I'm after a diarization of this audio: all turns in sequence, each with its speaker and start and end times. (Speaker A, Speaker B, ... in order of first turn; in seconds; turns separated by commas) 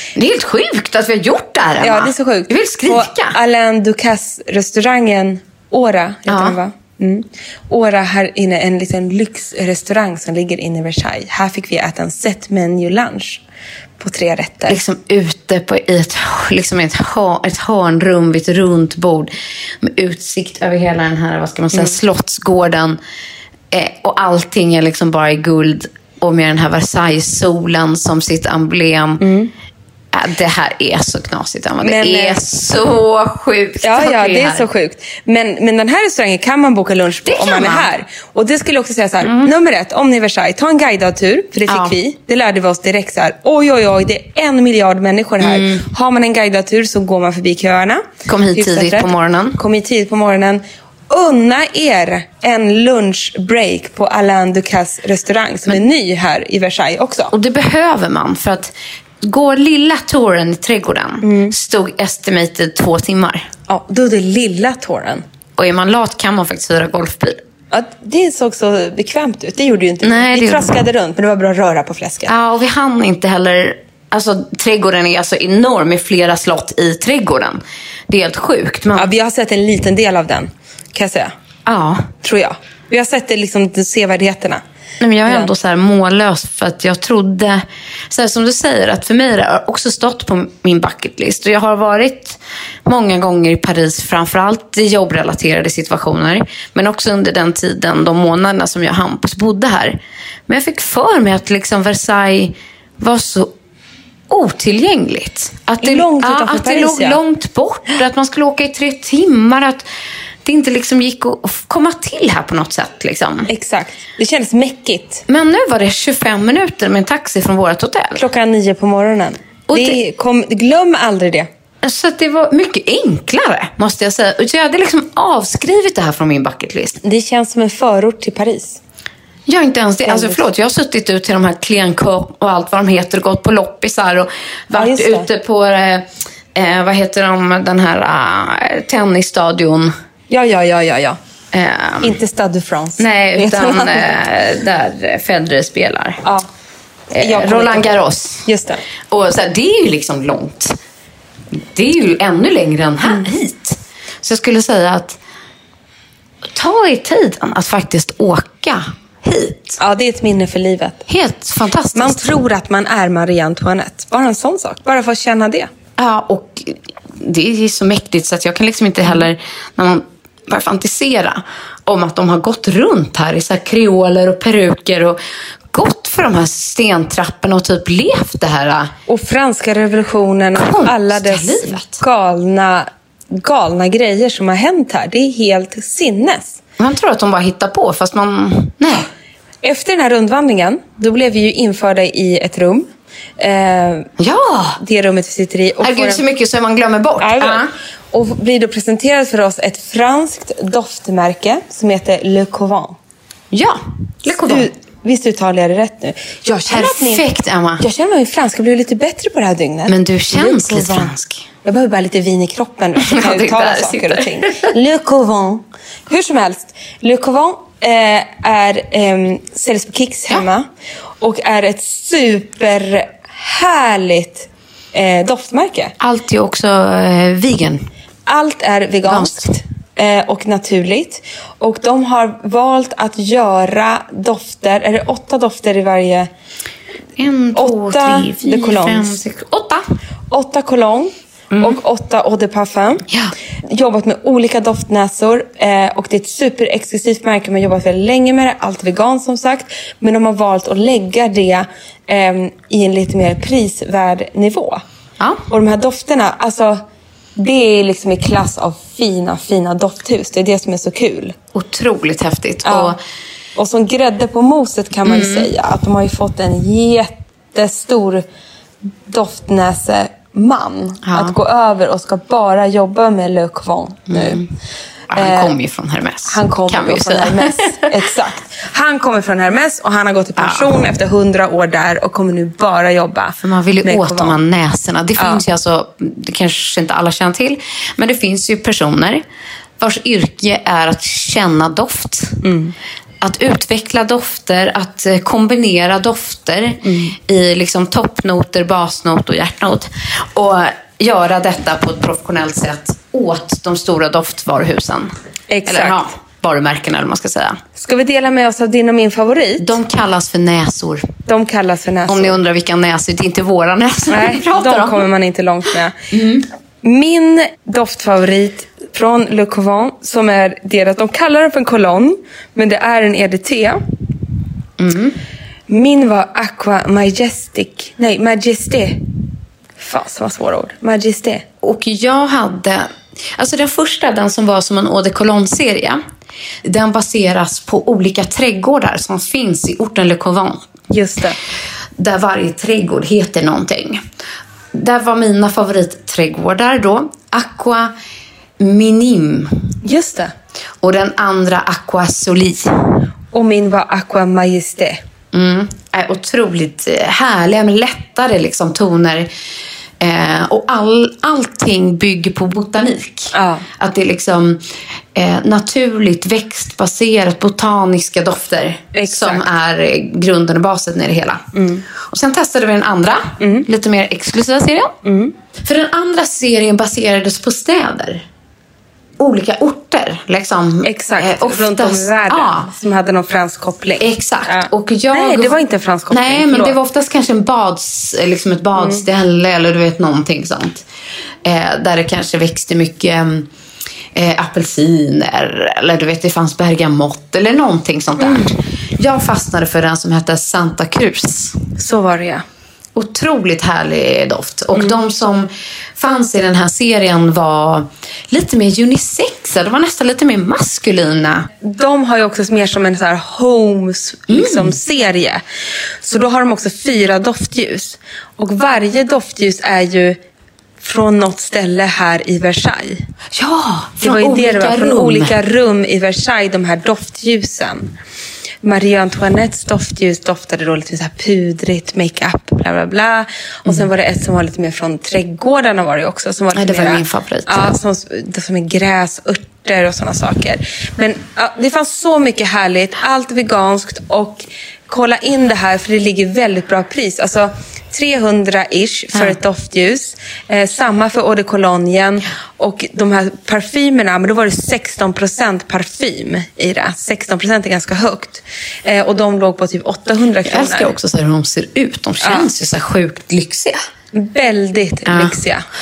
Speaker A: 0.2-3.4, Speaker B: 1.8-13.4, Speaker A: 6.3-6.6, Speaker B: 14.0-14.8, Speaker A: 14.7-23.0, Speaker A: 23.7-29.2, Speaker B: 29.2-29.5, Speaker A: 30.1-34.7, Speaker B: 31.8-32.4, Speaker B: 33.8-57.3, Speaker A: 37.3-37.9, Speaker A: 39.2-39.5, Speaker A: 41.7-42.0, Speaker A: 45.4-45.9, Speaker A: 48.3-49.6, Speaker A: 57.3-63.5, Speaker B: 61.2-61.5, Speaker B: 63.7-65.2, Speaker A: 65.6-67.4, Speaker B: 67.7-72.3, Speaker A: 70.0-70.8, Speaker A: 72.3-79.1, Speaker B: 79.0-81.3, Speaker A: 81.7-82.1, Speaker B: 82.2-84.6, Speaker A: 85.0-103.5, Speaker B: 85.3-85.5, Speaker A: 104.3-109.9, Speaker B: 105.8-107.2, Speaker A: 110.5-113.5, Speaker B: 113.5-115.2, Speaker A: 115.3-118.2, Speaker B: 118.2-121.5, Speaker A: 119.7-120.0, Speaker A: 121.8-127.0, Speaker B: 127.0-128.8, Speaker A: 129.5-139.9, Speaker B: 130.1-130.4, Speaker B: 134.7-135.3, Speaker B: 140.3-141.2, Speaker A: 141.5-142.2, Speaker B: 142.0-144.1, Speaker A: 143.0-146.2, Speaker A: 147.1-148.5, Speaker B: 147.2-148.8, Speaker A: 149.1-150.8, Speaker A: 151.5-155.2, Speaker A: 156.5-159.8, Speaker B: 159.8-161.1, Speaker A: 161.1-162.4, Speaker B: 161.9-165.7, Speaker A: 166.0-175.2, Speaker A: 175.7-178.9, Speaker B: 179.1-186.6, Speaker A: 180.6-182.0, Speaker A: 186.8-189.1, Speaker B: 189.6-194.1, Speaker A: 194.2-194.8, Speaker B: 194.8-196.3, Speaker A: 195.8-197.7, Speaker B: 197.2-203.0, Speaker A: 203.5-204.7, Speaker B: 204.3-207.3, Speaker A: 206.7-207.8, Speaker B: 207.8-220.7, Speaker A: 209.9-211.5, Speaker A: 213.0-214.7, Speaker B: 221.2-225.9, Speaker A: 226.0-227.9, Speaker B: 228.3-236.3, Speaker A: 229.1-229.6, Speaker A: 237.2-239.8, Speaker B: 237.6-239.2, Speaker B: 240.3-243.1, Speaker A: 241.5-241.8, Speaker B: 243.7-254.8, Speaker B: 255.5-256.8, Speaker B: 257.4-261.3, Speaker A: 261.5-263.0, Speaker B: 262.6-263.0, Speaker B: 263.6-268.2, Speaker A: 265.1-265.5, Speaker B: 269.1-274.4, Speaker A: 271.1-271.4, Speaker A: 274.1-274.4, Speaker A: 275.1-278.0, Speaker B: 275.2-275.6, Speaker B: 276.3-284.4, Speaker A: 280.4-280.7, Speaker A: 283.4-289.2, Speaker B: 285.2-285.5, Speaker A: 289.8-292.4, Speaker B: 292.4-292.8, Speaker A: 293.2-305.1, Speaker B: 296.8-297.2, Speaker B: 305.5-306.0, Speaker A: 305.6-307.6, Speaker B: 307.8-309.8, Speaker A: 309.6-311.1, Speaker B: 311.3-312.4, Speaker A: 312.1-315.1, Speaker B: 314.1-315.9, Speaker A: 316.1-316.5, Speaker B: 316.8-323.8, Speaker A: 324.8-325.2, Speaker B: 325.7-329.0, Speaker B: 329.8-331.4, Speaker A: 331.6-336.0, Speaker A: 336.6-340.7, Speaker B: 340.9-341.4, Speaker A: 342.0-344.0, Speaker A: 344.7-347.9, Speaker A: 348.6-349.6, Speaker B: 349.8-350.3, Speaker A: 350.8-352.7, Speaker B: 353.3-355.0, Speaker A: 355.3-359.3, Speaker A: 360.0-364.6, Speaker B: 363.3-363.7, Speaker A: 365.1-375.0, Speaker B: 368.9-369.5, Speaker B: 371.5-371.9, Speaker B: 373.4-373.7, Speaker B: 375.0-375.3, Speaker A: 375.6-378.2, Speaker A: 379.2-382.7, Speaker B: 380.8-386.8, Speaker A: 384.0-390.9, Speaker B: 388.8-389.0, Speaker A: 391.4-393.5, Speaker A: 394.1-401.6, Speaker B: 398.2-398.5, Speaker B: 401.8-402.4, Speaker A: 402.9-411.5, Speaker B: 411.6-415.4, Speaker A: 414.3-414.8, Speaker B: 416.0-420.2, Speaker B: 420.8-423.0, Speaker A: 423.3-425.4, Speaker B: 424.0-427.9, Speaker B: 428.6-460.9, Speaker A: 436.5-437.7, Speaker A: 460.5-463.8, Speaker B: 462.2-462.5, Speaker B: 464.1-465.6, Speaker A: 465.1-465.4